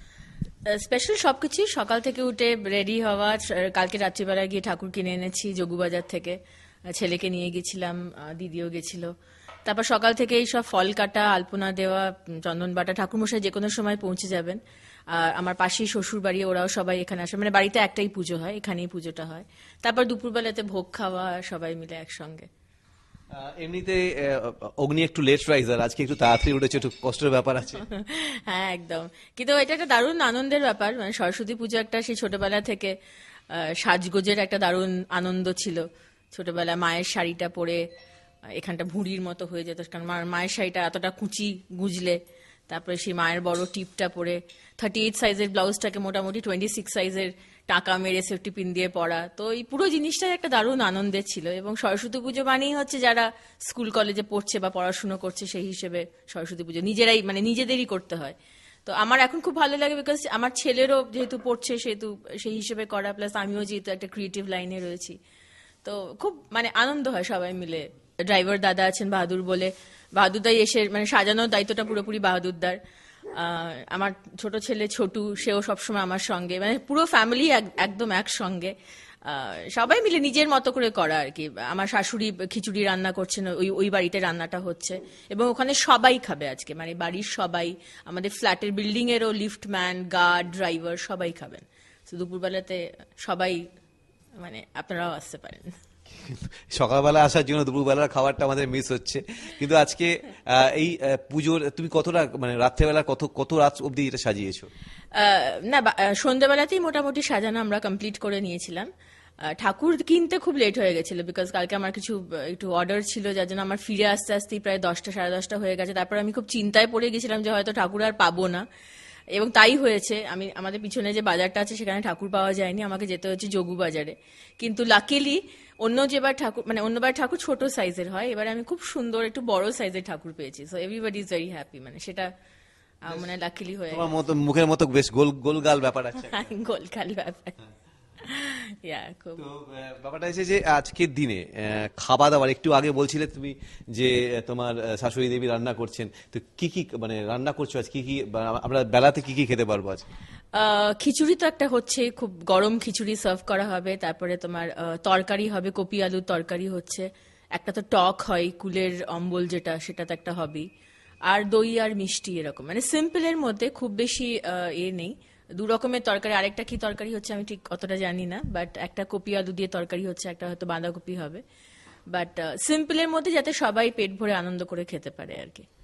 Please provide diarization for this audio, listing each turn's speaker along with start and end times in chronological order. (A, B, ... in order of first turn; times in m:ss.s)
0:00.7-0:06.4 A
0:06.9-0:09.1 A
0:09.6-0:14.6 A
0:15.1-0:22.5 A
0:23.3-0:27.8 B
0:27.8-0:32.9 A
0:33.5-0:37.8 A
0:38.6-0:42.2 A
0:42.7-1:05.1 A
1:05.8-1:12.8 A
1:13.3-1:18.7 A
1:19.2-1:33.6 A
1:34.4-1:35.7 A
1:36.1-1:44.7 B
1:45.1-1:48.9 A
1:49.5-1:58.6 A
1:59.3-2:12.3 A
2:13.0-2:14.1 A
2:13.9-2:16.4 B
2:16.2-2:17.6 A
2:18.2-2:19.4 A
2:19.4-2:30.1 B
2:30.5-2:40.6 A
2:41.3-2:51.4 A
2:52.1-2:55.6 A